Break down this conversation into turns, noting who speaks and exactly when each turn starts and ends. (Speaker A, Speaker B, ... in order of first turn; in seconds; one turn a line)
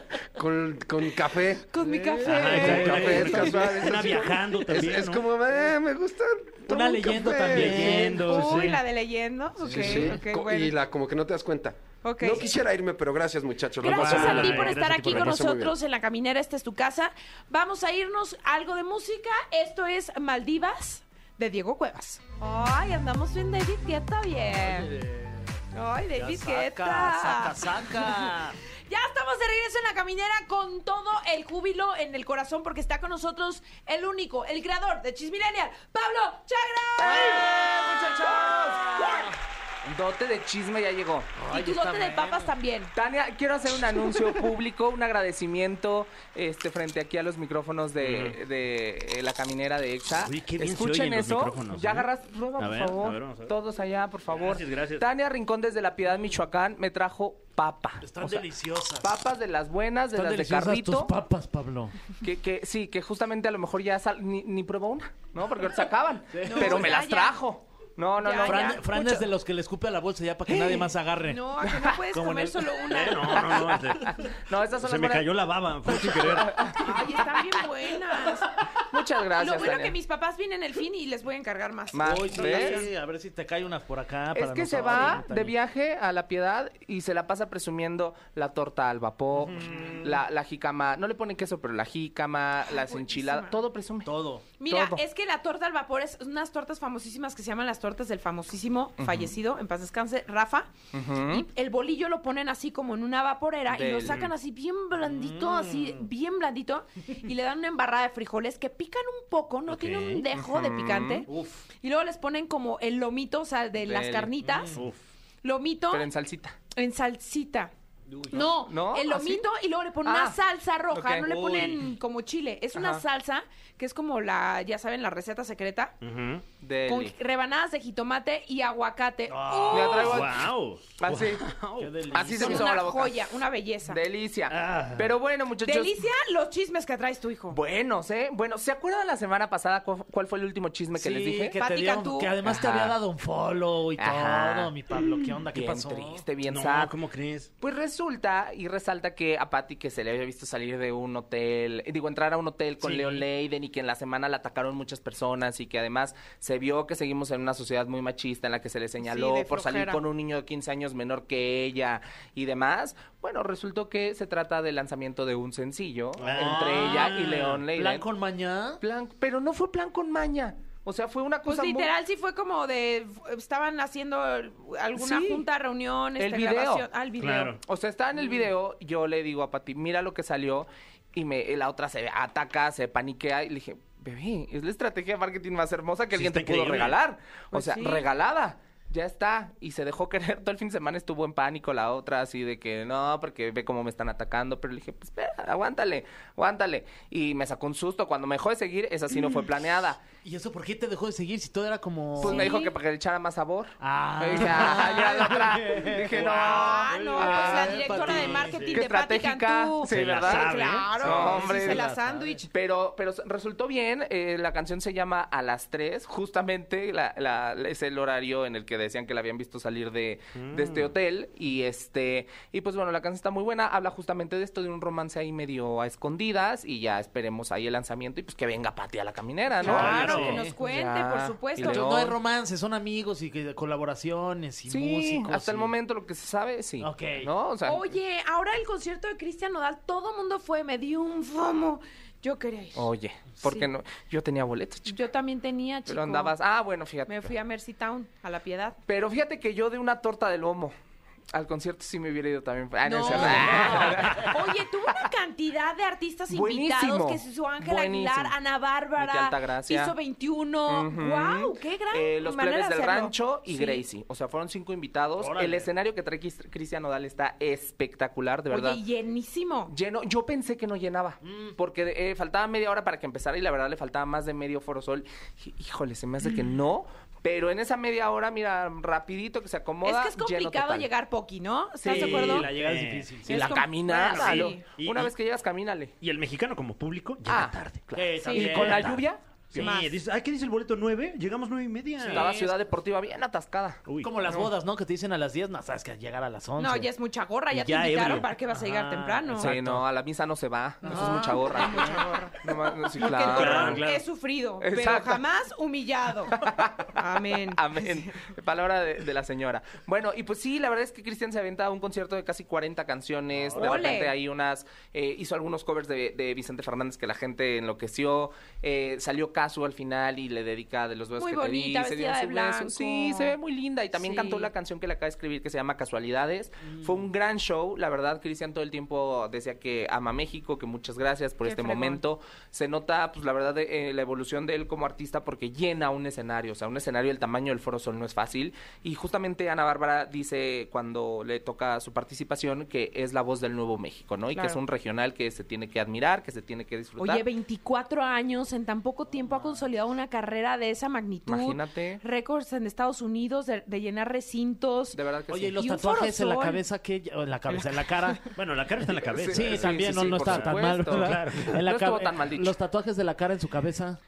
Speaker A: 0.3-8.2
Speaker B: 1.7-3.6
Speaker C: 2.2-3.6
Speaker D: 2.2-5.2
Speaker C: 6.7-8.8
Speaker D: 7.5-8.8
Speaker B: 8.2-10.7
Speaker C: 9.6-10.2
Speaker A: 9.7-15.8
Speaker B: 12.0-12.5
Speaker B: 13.8-24.9
Speaker D: 13.8-15.3
Speaker C: 13.9-14.8
Speaker C: 24.7-25.4
Speaker B: 25.7-28.3
Speaker C: 26.1-28.6
Speaker B: 28.9-39.1
Speaker E: 37.0-41.3
Speaker C: 41.3-42.5
Speaker B: 41.5-42.9
Speaker E: 42.9-58.5
Speaker D: 48.0-48.4
Speaker D: 50.2-53.5
Speaker D: 54.3-55.0
Speaker C: 58.0-59.1
Speaker E: 59.0-61.1
Speaker C: 60.1-61.9
Speaker E: 62.2-69.0
Speaker C: 66.3-67.0
Speaker B: 66.4-67.4
Speaker B: 68.2-69.1
Speaker C: 68.4-71.4
Speaker E: 70.5-70.8
Speaker B: 71.2-73.8
Speaker C: 72.1-72.6
Speaker D: 72.9-76.9
Speaker E: 73.7-75.3
Speaker E: 75.9-77.0
Speaker B: 76.8-78.6
Speaker E: 78.8-80.0
Speaker B: 79.3-82.8
Speaker E: 81.9-82.9
Speaker C: 82.0-85.5
Speaker E: 84.3-94.1
Speaker C: 89.5-90.1
Speaker B: 92.7-93.6
Speaker C: 94.0-94.4
Speaker B: 94.6-100.8
Speaker E: 94.7-95.0
Speaker E: 99.0-99.3
Speaker E: 100.9-101.5
Speaker B: 101.3-114.8
Speaker E: 103.7-104.3
Speaker C: 105.0-106.0
Speaker D: 109.7-110.2
Speaker E: 110.3-111.3
Speaker C: 111.3-111.6
Speaker E: 113.8-114.3
Speaker C: 114.5-114.8
Speaker B: 115.4-116.1
Speaker E: 115.9-116.6
Speaker B: 116.7-117.7
Speaker C: 118.1-118.4
Speaker B: 118.3-125.9
Speaker E: 118.4-119.4
Speaker E: 120.0-120.4
Speaker E: 120.9-121.8
Speaker C: 121.3-121.8
Speaker E: 122.7-123.0
Speaker D: 126.0-126.4
Speaker E: 126.6-127.1
Speaker B: 126.9-130.2
Speaker C: 129.3-129.9
Speaker E: 129.7-130.4
Speaker D: 129.7-132.5
Speaker E: 131.0-131.4
Speaker C: 131.8-132.7
Speaker E: 132.1-133.2
Speaker B: 132.4-134.0
Speaker E: 133.8-135.9
Speaker C: 134.5-135.0
Speaker D: 134.6-134.9
Speaker B: 135.6-137.6
Speaker E: 137.5-141.6
Speaker C: 140.9-146.2
Speaker B: 141.6-142.3
Speaker E: 142.4-142.9
Speaker E: 144.0-144.7
Speaker E: 145.5-146.9
Speaker D: 146.5-147.5
Speaker E: 147.6-168.1
Speaker C: 152.8-153.2
Speaker B: 159.0-160.0
Speaker C: 166.2-168.8
Speaker D: 166.2-167.6
Speaker E: 168.8-171.9
Speaker B: 171.4-177.5
Speaker E: 174.9-175.4
Speaker E: 176.2-176.9
Speaker D: 177.2-177.6
Speaker E: 177.6-200.0
Speaker D: 186.1-187.0
Speaker B: 187.5-188.0
Speaker C: 200.2-202.5
Speaker E: 202.2-211.8
Speaker B: 202.2-202.7
Speaker C: 203.8-208.8
Speaker B: 206.2-212.5
Speaker D: 209.9-211.2
Speaker C: 209.9-212.4
Speaker E: 212.5-232.2
Speaker D: 220.3-220.9
Speaker B: 229.6-231.9
Speaker C: 229.6-230.5
Speaker D: 229.6-230.4
Speaker C: 231.6-235.7
Speaker E: 234.7-237.9
Speaker C: 236.8-237.3
Speaker B: 237.6-242.9
Speaker E: 242.8-245.0
Speaker B: 243.4-243.7
Speaker B: 244.9-246.3
Speaker E: 245.9-247.3
Speaker B: 247.1-248.8
Speaker E: 248.9-250.7
Speaker E: 251.3-254.6
Speaker B: 252.8-263.8
Speaker E: 256.3-258.3
Speaker E: 259.0-259.9
Speaker E: 260.7-268.8
Speaker C: 265.2-265.7
Speaker B: 268.5-269.7
Speaker E: 269.7-280.9
Speaker C: 271.2-271.6
Speaker B: 279.8-282.5
Speaker E: 281.8-282.4
Speaker C: 281.9-283.6
Speaker D: 281.9-285.1
Speaker E: 283.2-285.9
Speaker B: 283.3-284.6
Speaker D: 286.0-292.3
Speaker E: 287.2-289.7
Speaker C: 287.9-288.9
Speaker B: 288.2-288.6
Speaker B: 289.6-290.0
Speaker C: 292.0-292.5
Speaker E: 292.1-294.5
Speaker D: 293.9-294.1
Speaker C: 294.0-296.9
Speaker B: 296.6-299.5
Speaker D: 297.5-298.3
Speaker C: 298.5-299.5
Speaker E: 299.4-303.9
Speaker D: 299.4-299.8
Speaker C: 300.8-301.9
Speaker B: 300.9-308.2
Speaker D: 303.1-304.0
Speaker E: 304.6-305.2
Speaker E: 306.3-347.2
Speaker B: 313.5-314.1
Speaker B: 321.2-323.3
Speaker B: 323.9-324.5
Speaker C: 326.7-326.9
Speaker B: 331.4-332.0
Speaker B: 344.3-344.6
Speaker B: 347.0-355.0
Speaker E: 351.3-352.0
Speaker E: 354.9-355.6
Speaker C: 355.3-358.2
Speaker B: 355.6-356.6
Speaker B: 357.5-358.1
Speaker D: 358.3-361.5
Speaker E: 359.0-362.5
Speaker C: 359.3-364.0